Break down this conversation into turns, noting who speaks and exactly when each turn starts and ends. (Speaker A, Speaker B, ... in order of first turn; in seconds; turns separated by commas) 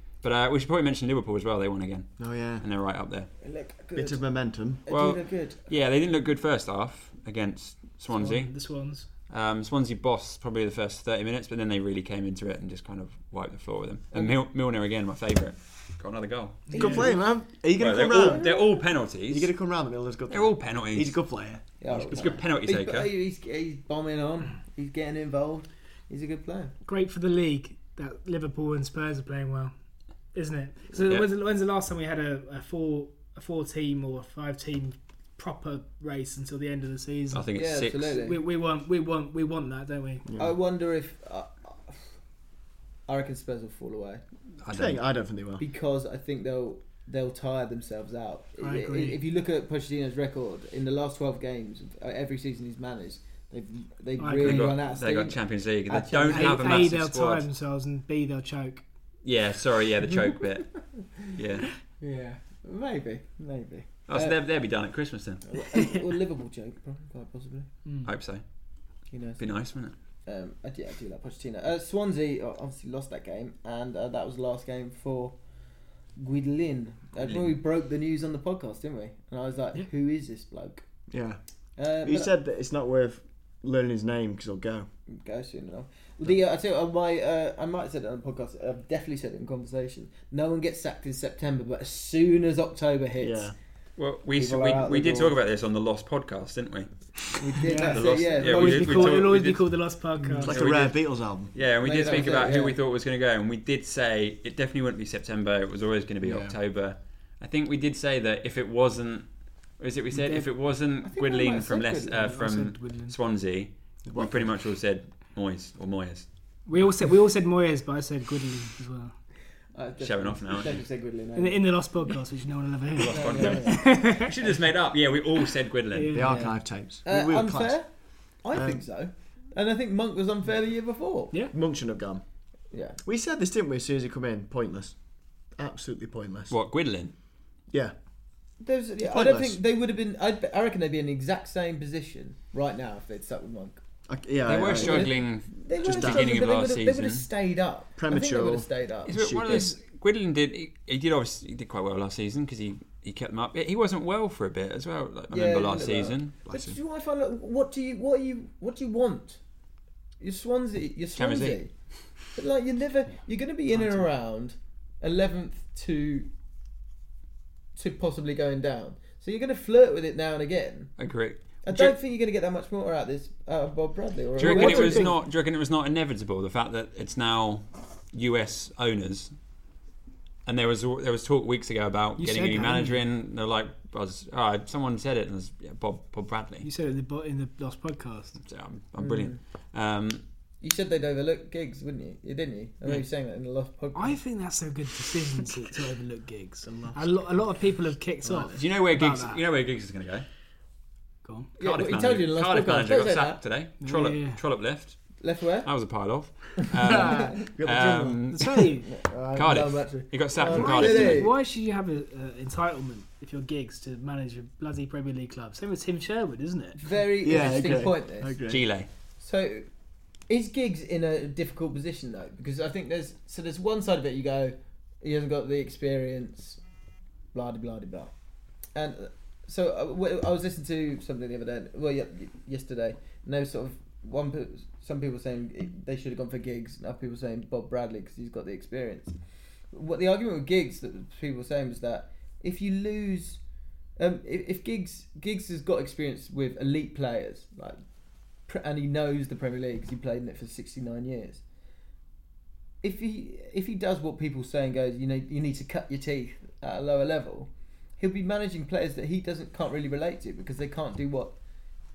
Speaker A: 0.2-3.3, Speaker B: 2.2-2.6, Speaker C: 3.4-5.7, Speaker B: 4.0-4.8, Speaker A: 4.9-8.6, Speaker D: 8.1-9.1, Speaker A: 9.3-16.8, Speaker D: 16.7-17.1, Speaker C: 16.7-17.1, Speaker B: 16.7-18.5, Speaker A: 17.8-19.5, Speaker C: 18.1-18.7, Speaker B: 19.2-22.3, Speaker A: 20.3-21.2, Speaker C: 21.8-26.7, Speaker A: 22.1-23.1, Speaker D: 26.9-29.7, Speaker D: 30.3-37.5, Speaker A: 31.0-31.3, Speaker A: 37.3-38.1, Speaker C: 37.5-38.4, Speaker D: 38.1-40.3, Speaker B: 40.2-40.5, Speaker C: 40.4-42.0, Speaker C: 43.1-44.2, Speaker A: 44.6-45.0, Speaker B: 44.7-45.6, Speaker C: 45.6-56.9, Speaker D: 48.6-49.2, Speaker D: 54.2-54.8, Speaker A: 54.4-57.5, Speaker D: 56.3-58.8, Speaker A: 59.2-61.7, Speaker C: 62.0-64.4, Speaker A: 64.1-65.5, Speaker C: 65.5-67.7, Speaker D: 67.8-68.1, Speaker A: 68.0-68.4, Speaker C: 69.1-69.5, Speaker A: 69.4-69.9, Speaker C: 70.3-75.4, Speaker C: 76.2-80.8, Speaker A: 77.2-77.5, Speaker B: 81.1-81.4, Speaker C: 81.8-82.3, Speaker B: 82.0-84.9, Speaker C: 85.1-93.5, Speaker B: 93.2-93.5, Speaker A: 94.0-96.9, Speaker C: 94.4-95.4, Speaker C: 97.4-99.3, Speaker D: 97.6-100.7, Speaker A: 97.9-99.9, Speaker B: 100.4-101.5, Speaker A: 100.5-116.3, Speaker C: 101.8-102.8, Speaker B: 106.2-106.6, Speaker D: 110.1-110.5, Speaker C: 111.0-112.2, Speaker D: 112.1-113.2, Speaker B: 114.0-114.6, Speaker D: 116.7-119.1, Speaker C: 119.8-121.7, Speaker A: 120.0-120.8, Speaker D: 121.4-124.3, Speaker A: 123.0-126.2, Speaker C: 123.1-124.0, Speaker D: 125.9-126.5, Speaker B: 126.1-127.8, Speaker C: 126.3-127.9, Speaker C: 128.4-131.3, Speaker B: 128.5-128.8, Speaker B: 131.5-132.2, Speaker C: 132.7-133.0, Speaker B: 133.1-135.0, Speaker B: 135.5-136.6, Speaker A: 136.5-137.1, Speaker C: 138.6-143.8, Speaker B: 139.0-139.6, Speaker B: 144.1-145.2, Speaker A: 144.4-147.3, Speaker C: 144.7-149.2, Speaker B: 145.8-146.4, Speaker B: 148.0-149.7, Speaker A: 149.1-156.3, Speaker C: 155.3-159.4, Speaker B: 156.5-156.8, Speaker C: 160.2-166.3, Speaker A: 161.2-161.6, Speaker D: 163.7-164.1, Speaker C: 167.8-170.9, Speaker A: 171.0-172.0, Speaker C: 171.6-175.1, Speaker D: 174.4-175.2, Speaker A: 174.4-179.3, Speaker A: 180.5-186.7, Speaker D: 182.2-183.0, Speaker D: 186.6-188.4, Speaker A: 188.4-190.2, Speaker C: 189.0-189.4, Speaker C: 190.6-194.2, Speaker D: 193.9-199.4, Speaker B: 196.7-197.4, Speaker B: 198.2-198.6, Speaker A: 198.6-200.3, Speaker D: 201.2-201.5, Speaker C: 201.6-203.4, Speaker A: 201.6-208.5, Speaker D: 203.8-204.4, Speaker C: 205.2-205.7, Speaker B: 206.9-208.3, Speaker C: 207.0-207.3, Speaker D: 208.3-208.9, Speaker C: 208.8-211.3, Speaker A: 209.3-211.2, Speaker D: 210.4-217.0, Speaker C: 216.8-218.4, Speaker B: 217.2-218.7, Speaker A: 218.5-218.9, Speaker C: 219.2-219.7, Speaker C: 220.3-226.6, Speaker C: 227.3-228.1, Speaker C: 228.8-239.2, Speaker C: 239.7-243.4, Speaker C: 244.0-247.8, Speaker C: 248.5-251.4, Speaker C: 252.8-261.3